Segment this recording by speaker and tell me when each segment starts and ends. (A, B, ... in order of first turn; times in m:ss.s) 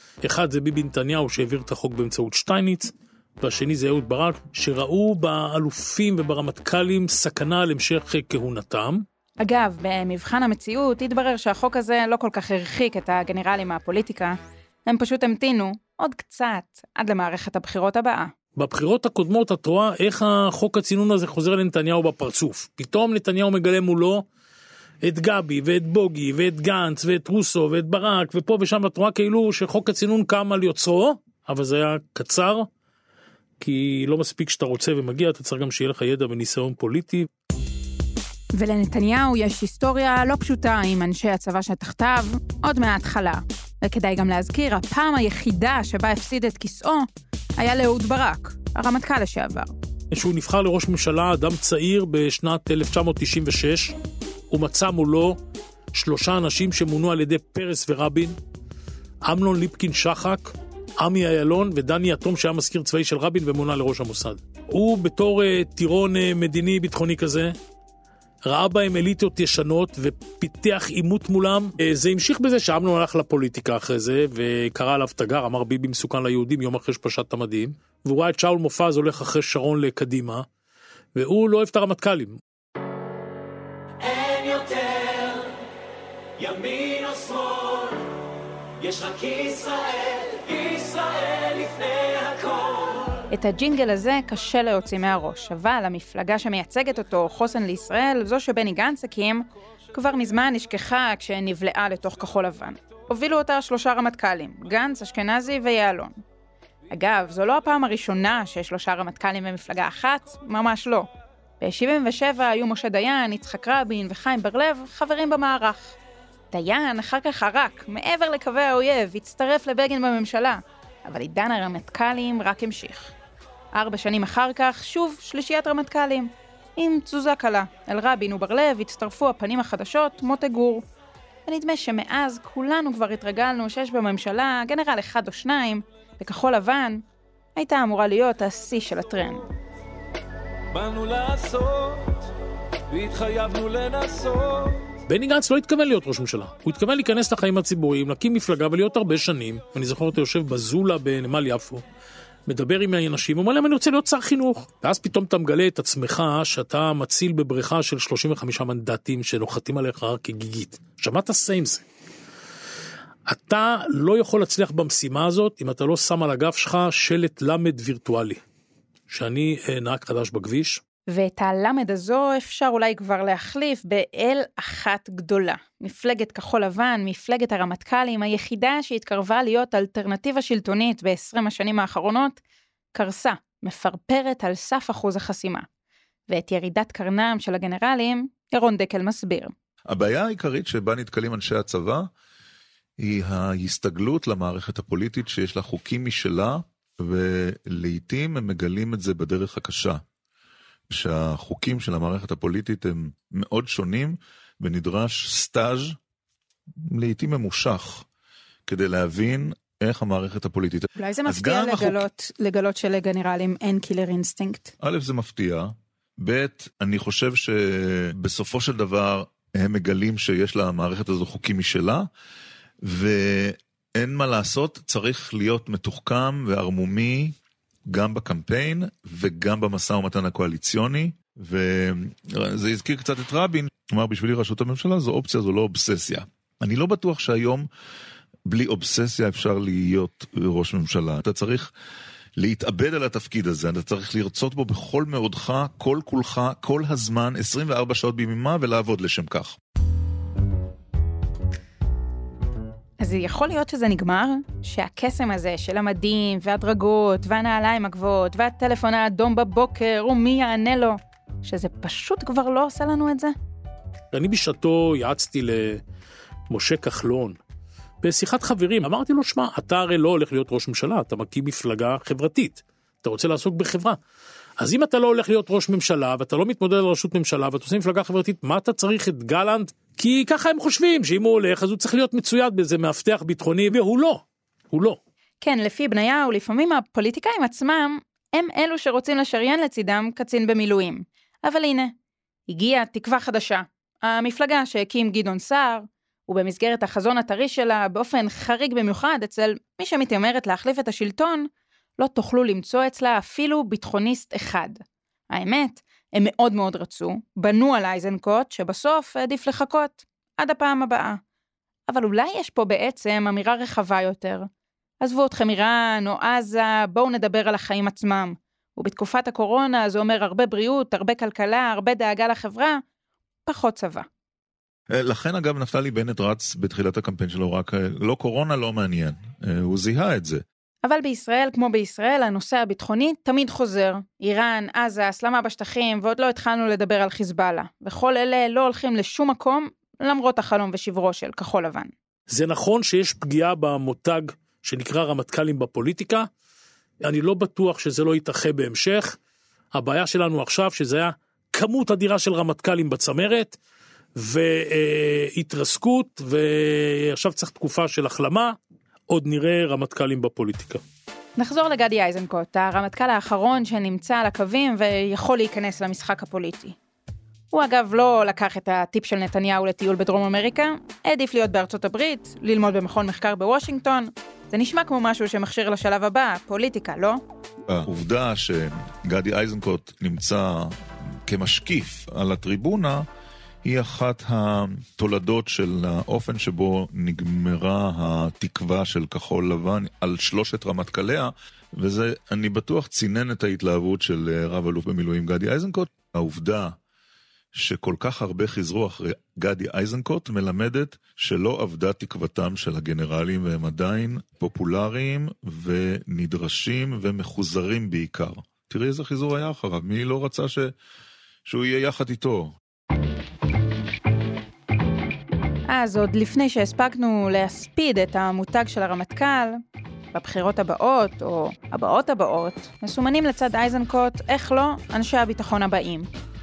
0:00.2-0:09.0 A
0:09.4-0:18.3 B
0:18.6-0:24.2 A
0:25.0-0:32.7 A
0:33.6-0:37.3 A
0:38.6-0:47.1 B
0:47.6-0:49.7 B
0:50.1-0:54.0 A
0:54.5-0:55.4 A
0:55.9-0:58.4 A
0:59.2-1:07.5 A
1:08.4-1:20.4 A
1:21.1-1:22.4 A
1:26.4-1:27.6 A
1:28.9-1:29.6 A
1:30.3-1:30.8 A
1:33.3-1:46.2 B
1:46.9-1:51.1 B
1:51.6-1:56.0 B
1:56.5-2:03.1 B
2:03.7-2:10.8 B
2:11.4-2:17.0 B
2:17.6-2:19.4 B
2:20.8-2:22.1 C
2:22.9-2:24.8 C
2:25.1-2:31.8 A
2:32.5-2:41.8 A
2:43.3-2:48.4 A
2:49.1-2:50.8 A
2:51.1-3:02.4 B
3:02.9-3:05.6 B
3:06.3-3:09.5 B
3:09.9-3:12.0 D
3:13.0-3:20.0 D
3:20.9-3:26.0 D
3:26.8-3:28.0 D
3:28.7-3:32.0 D
3:31.0-3:34.7 B
3:34.8-3:42.1 D
3:42.8-3:47.3 D
3:47.9-3:57.7 D
3:58.5-4:01.7 D
4:02.4-4:09.6 D
4:13.0-4:23.3 B
4:24.1-4:25.8 A
4:26.5-4:27.4 A
4:28.0-4:34.0 A
4:34.6-4:45.0 A
4:45.4-4:51.9 B
4:52.5-5:01.4 B
5:02.0-5:11.2 B
5:11.9-5:14.5 B
5:15.0-5:22.8 B
5:23.4-5:24.0 B
5:24.9-5:30.4 D
5:30.8-5:41.9 B
5:42.3-5:46.2 A
5:47.0-5:49.2 A
5:49.7-5:53.6 A
5:54.2-5:58.6 A
5:59.1-6:00.8 A
6:01.4-6:06.8 B
6:07.5-6:17.2 B
6:17.7-6:23.0 D
6:23.6-6:36.7 D
6:37.5-6:50.7 D
6:51.4-6:52.5 D
6:55.7-6:59.6 B
7:00.1-7:06.1 B